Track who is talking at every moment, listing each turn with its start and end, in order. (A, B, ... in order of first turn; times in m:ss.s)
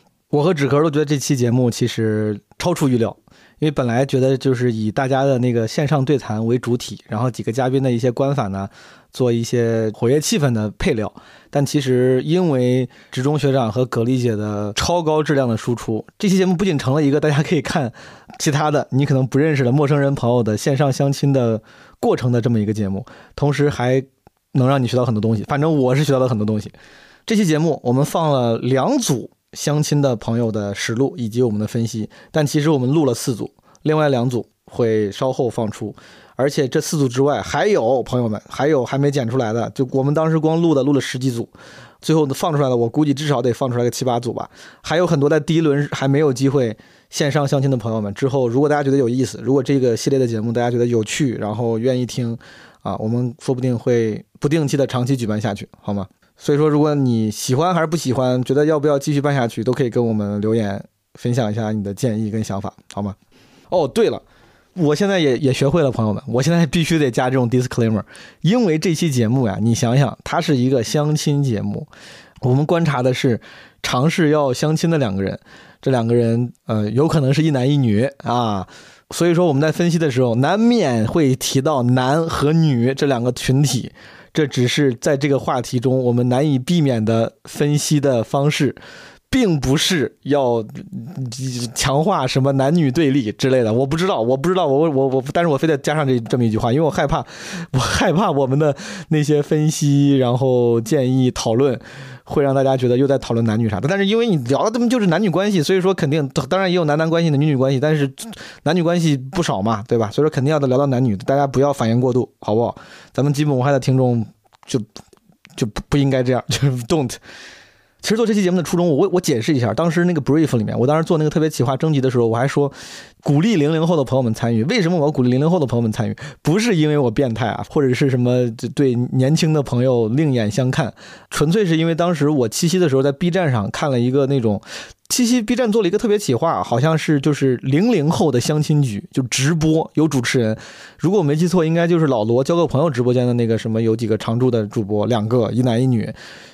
0:00.3-0:26.7 A
0:27.3-1:03.2 A
1:03.7-1:04.2 A
1:04.8-1:11.9 A
1:12.4-1:28.8 A
1:29.3-1:54.9 A
1:55.6-1:57.2 A
1:58.0-2:26.2 A